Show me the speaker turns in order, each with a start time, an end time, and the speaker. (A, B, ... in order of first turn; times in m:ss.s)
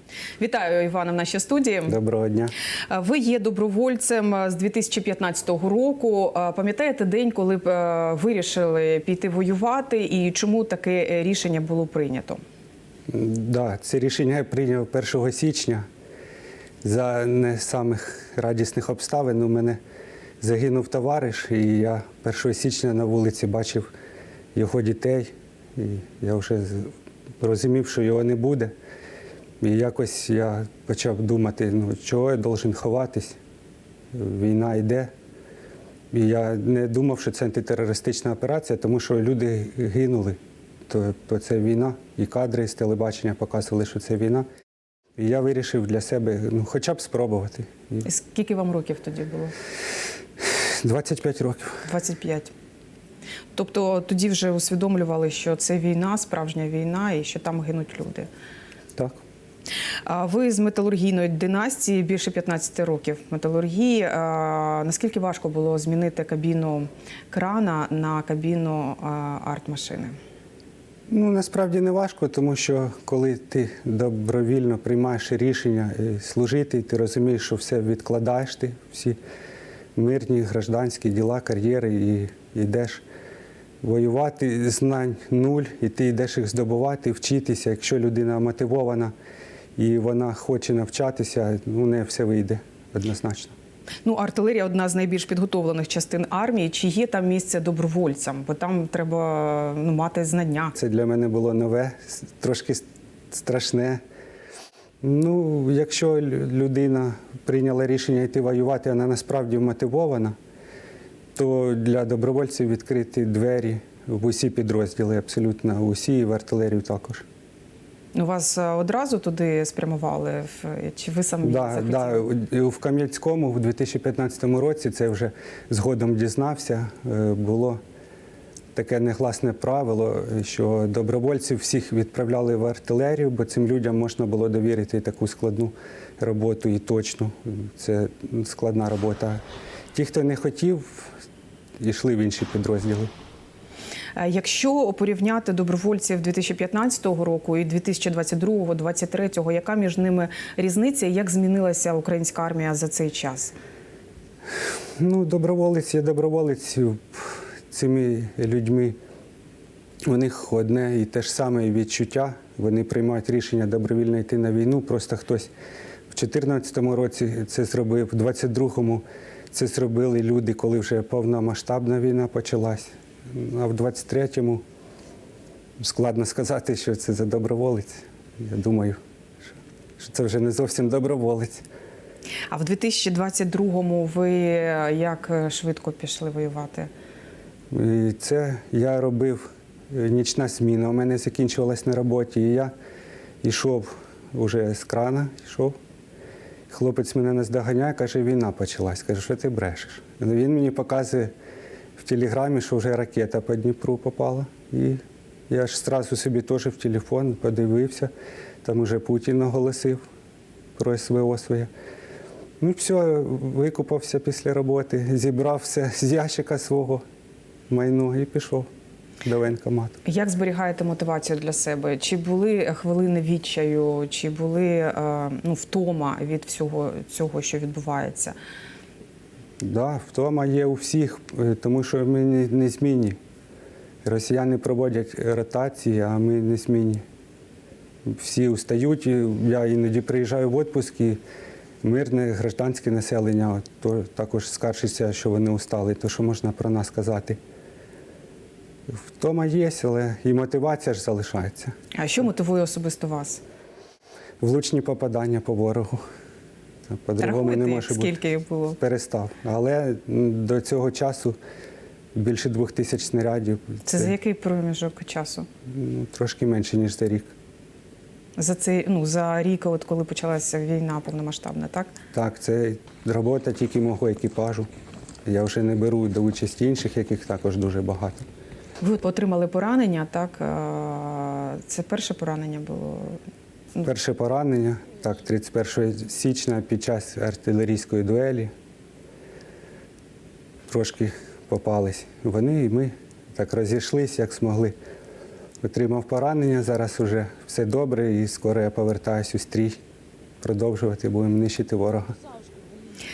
0:00.4-0:02.0 A
0:01.9-0:02.5 B
0:02.9-0:12.4 A
0:13.1-0:15.9 B
0:16.8-0:19.8 B
0:20.4-0:23.9 B
0:24.5-0:28.7 B
0:29.6-0:33.4 B
0:34.1-0:35.1 B
0:36.1-0:40.4 B
0:40.9-0:44.4 B
0:45.2-0:48.0 B
0:48.0-0:49.5 A
0:50.6-0:51.8 B
0:51.8-0:52.5 A
0:53.6-0:58.3 A
0:59.0-0:59.2 B
1:00.1-1:10.2 A
1:11.1-1:19.2 B
1:20.0-1:23.0 B
1:23.8-1:29.1 B
1:29.8-1:33.5 B
1:34.0-1:40.8 A
1:40.8-1:44.0 B
1:45.0-1:50.3 B
1:51.4-1:57.2 B
1:58.2-2:02.2 A
2:01.4-2:07.8 B
2:08.8-2:19.4 B
2:19.9-2:21.1 B
2:21.8-2:23.1 B
2:24.2-2:33.5 A
2:35.0-2:39.0 B
2:40.1-2:45.5 B
2:46.1-2:54.6 B
2:55.8-2:59.0 B
3:00.0-3:01.6 B
3:02.5-3:06.9 A
3:07.7-3:12.7 B
3:13.4-3:15.8 B
3:16.7-3:21.3 B
3:22.0-3:28.1 B
3:28.6-3:30.0 B
3:30.8-3:31.7 B
3:32.6-3:37.0 B
3:37.7-3:38.7 B
3:39.2-3:40.0 B
3:40.0-3:48.3 A
3:49.6-3:53.2 B
3:54.0-3:57.0 B
3:58.0-4:01.2 B
4:01.8-4:07.4 B
4:08.9-4:11.7 B
4:11.9-4:13.4 A
4:14.4-4:16.0 B
4:16.9-4:18.2 B
4:17.2-4:18.8 A
4:18.8-4:21.4 B
4:22.1-4:24.1 B
4:23.8-4:25.5 A
4:25.7-4:27.3 B
4:28.4-4:31.9 A
4:32.1-4:34.7 B
4:35.2-4:38.2 B
4:38.8-4:43.2 A
4:43.8-4:48.5 B
4:50.7-4:54.7 B
4:55.6-4:59.8 B
5:00.4-5:02.1 B